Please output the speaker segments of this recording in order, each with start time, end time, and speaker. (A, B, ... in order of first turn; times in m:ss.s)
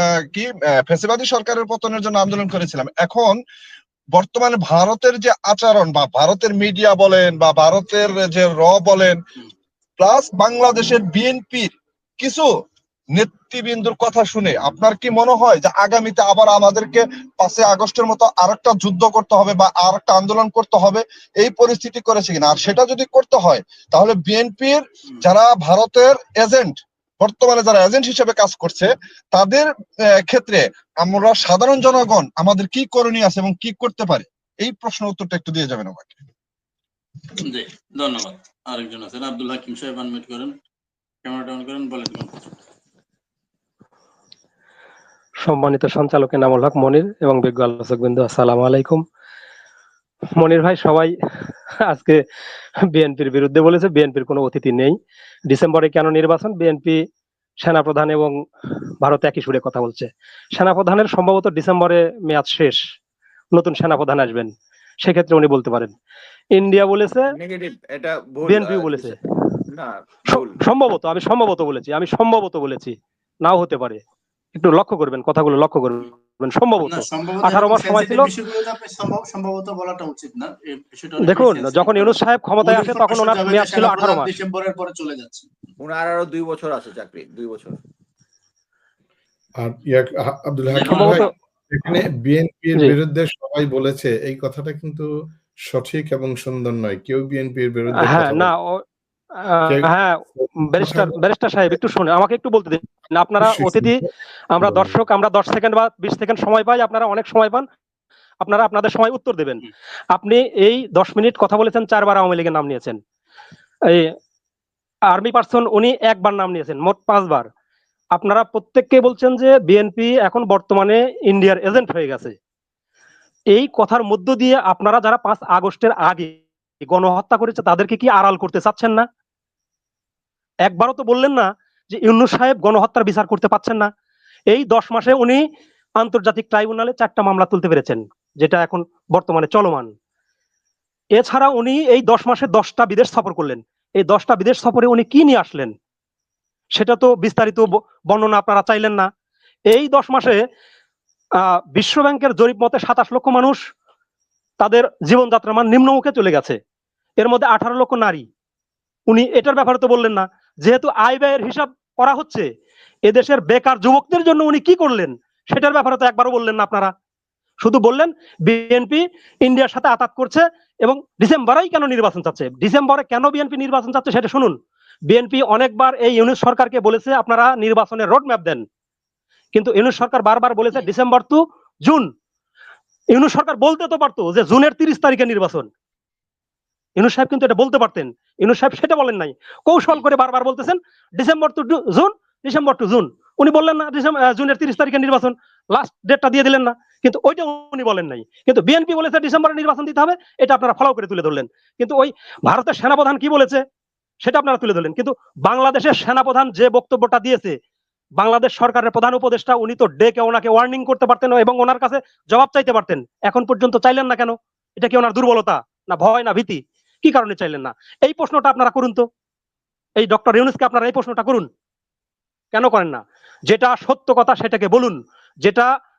0:00.3-0:03.4 A
0:04.1-0:09.2 A
0:10.0-0:12.5 A
0:13.1-0:29.7 A
0:30.2-0:36.2 A
0:37.4-0:40.5 B
0:41.2-0:42.5 B
0:45.4-0:49.0 C
0:50.4-0:51.1 C
0:51.8-0:52.2 C
0:52.9-0:55.0 C
0:55.5-0:57.0 C
0:57.6-0:58.4 C
0:59.0-1:02.8 C
1:03.5-1:05.9 C
1:06.5-1:07.3 C
1:07.3-1:09.2 D
1:08.4-1:09.2 C
1:09.7-1:10.6 D
1:10.3-1:14.0 C
1:14.5-1:18.3 C
1:16.8-1:25.5 B
1:21.2-1:24.3 C
1:25.8-1:27.8 D
1:29.6-1:35.1 E
1:30.7-1:31.2 B
1:31.0-1:31.3 C
1:35.7-1:38.5 E
1:37.9-1:38.8 C
1:39.4-1:44.0 C
1:39.7-1:41.2 E
1:43.4-1:43.9 E
1:44.5-1:47.6 C
1:44.6-1:45.0 E
1:48.4-1:53.0 C
1:55.1-1:57.5 C
1:58.1-2:02.3 C
2:03.5-2:09.0 C
2:10.6-2:13.9 C
2:14.5-2:15.4 C
2:16.0-2:19.9 C
2:21.2-2:25.7 C
2:26.7-2:29.1 C
2:29.7-2:30.4 C
2:31.7-2:33.6 C
2:34.6-2:36.6 C
2:37.2-2:38.2 C
2:39.1-2:42.5 C
2:43.0-2:46.9 C
2:47.6-2:54.6 C
2:55.1-2:58.6 C
2:59.5-3:02.1 C
3:03.1-3:05.7 C
3:07.0-3:23.6 C
3:24.2-3:27.5 C
3:28.2-3:39.0 C
3:40.0-3:41.5 C
3:42.5-3:45.7 C